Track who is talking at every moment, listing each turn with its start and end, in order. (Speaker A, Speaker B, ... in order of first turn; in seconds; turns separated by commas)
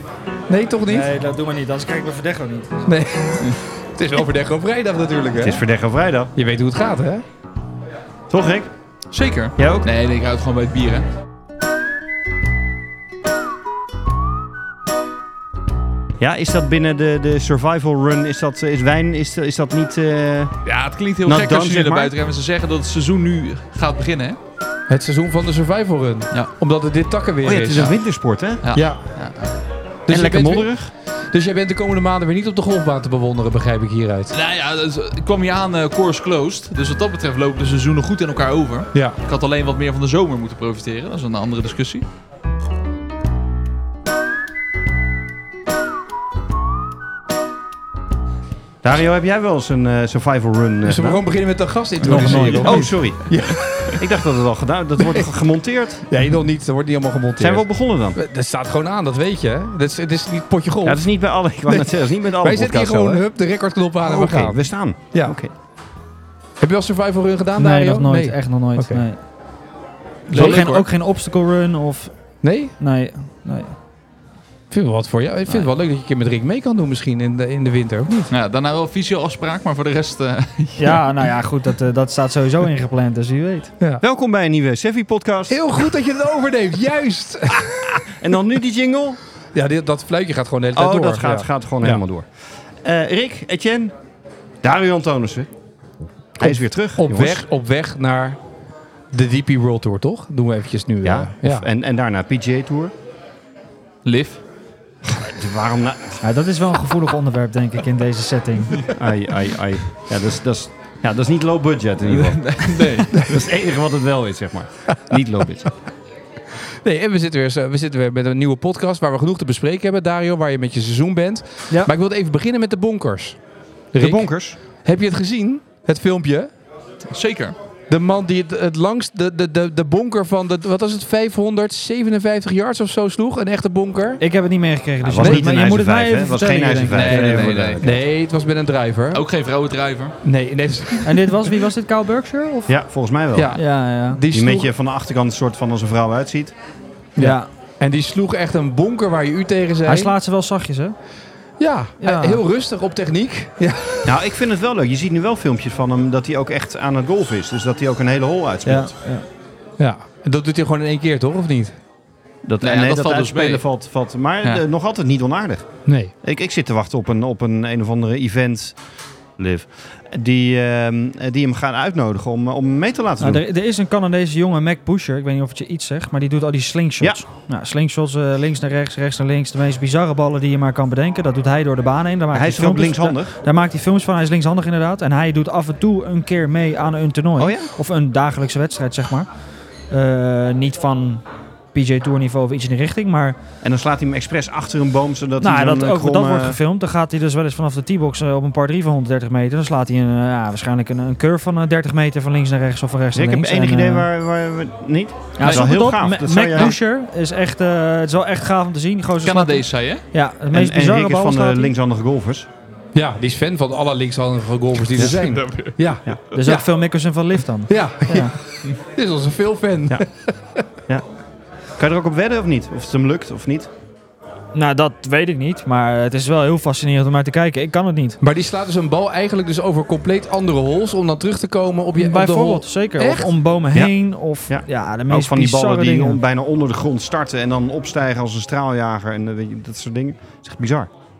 Speaker A: 0.5-1.1, Speaker B: 0.9-2.9, Speaker A: 2.9-5.6, Speaker C: 5.4-6.3, Speaker A: 6.3-7.2, Speaker C: 8.3-8.7, Speaker D: 9.1-11.1, Speaker C: 9.6-9.9, Speaker C: 16.2-20.6, Speaker D: 20.6-24.4, Speaker C: 21.2-22.1, Speaker A: 24.9-27.9, Speaker C: 27.4-28.7, Speaker D: 27.7-28.0, Speaker D: 28.6-29.5, Speaker A: 28.7-29.0, Speaker A: 30.1-34.3, Speaker C: 30.1-30.9, Speaker D: 34.3-42.0, Speaker C: 48.8-51.2, Speaker A: 50.8-54.2, Speaker C: 52.0-56.1, Speaker D: 52.0-52.8, Speaker B: 52.5-52.9, Speaker A: 55.0-55.2, Speaker A: 56.1-61.0, Speaker C: 57.4-58.2, Speaker C: 60.8-63.2, Speaker A: 61.7-65.3, Speaker C: 64.0-65.5, Speaker A: 66.6-69.0, Speaker B: 67.6-69.2, Speaker A: 70.3-70.7, Speaker D: 70.3-70.9, Speaker B: 70.3-72.1, Speaker A: 72.4-72.7, Speaker B: 72.8-73.8, Speaker A: 74.7-78.3, Speaker D: 78.3-81.1, Speaker B: 80.8-83.7, Speaker C: 84.0-85.8, Speaker A: 85.5-88.0, Speaker C: 87.5-89.2, Speaker A: 89.5-92.0, Speaker C: 90.7-92.3, Speaker C: 92.8-93.9, Speaker C: 94.6-95.5, Speaker C: 96.4-97.4, Speaker A: 96.4-98.4, Speaker A: 99.1-101.6, Speaker C: 101.0-102.9, Speaker D: 104.0-104.4, Speaker C: 105.0-106.2, Speaker B: 106.2-108.9, Speaker C: 108.9-115.7, Speaker D: 112.2-113.4, Speaker A: 116.8-123.4, Speaker A: 123.9-126.5, Speaker C: 124.0-124.6, Speaker D: 127.1-127.5, Speaker A: 127.9-134.2, Speaker B: 134.2-137.5, Speaker C: 135.0-138.0, Speaker A: 135.2-135.4, Speaker D: 136.9-137.8, Speaker A: 137.8-139.2, Speaker D: 139.1-140.2, Speaker A: 140.2-141.3, Speaker B: 141.0-142.8, Speaker C: 142.7-143.6, Speaker A: 143.3-144.7, Speaker B: 143.5-144.2, Speaker C: 144.3-146.5, Speaker A: 147.2-150.1, Speaker B: 147.2-147.5, Speaker B: 149.8-150.9, Speaker A: 151.6-154.1, Speaker B: 152.0-152.4, Speaker C: 154.1-158.9, Speaker B: 158.7-159.2, Speaker A: 159.8-161.8, Speaker C: 162.4-168.8, Speaker D: 162.6-163.6, Speaker A: 165.8-166.1, Speaker C: 169.4-173.4, Speaker B: 173.2-189.3, Speaker C: 182.3-183.4, Speaker C: 187.4-187.7, Speaker B: 189.9-193.4, Speaker C: 193.6-196.6, Speaker B: 195.4-204.1, Speaker C: 203.1-206.8, Speaker B: 205.4-211.7, Speaker D: 205.4-205.7, Speaker D: 209.2-210.0, Speaker C: 210.5-212.5, Speaker A: 212.9-216.7, Speaker D: 214.9-215.8, Speaker B: 216.3-218.3, Speaker A: 217.7-220.7, Speaker C: 221.8-223.7, Speaker B: 224.5-228.2, Speaker A: 228.2-233.3, Speaker B: 232.0-236.2, Speaker C: 234.5-240.9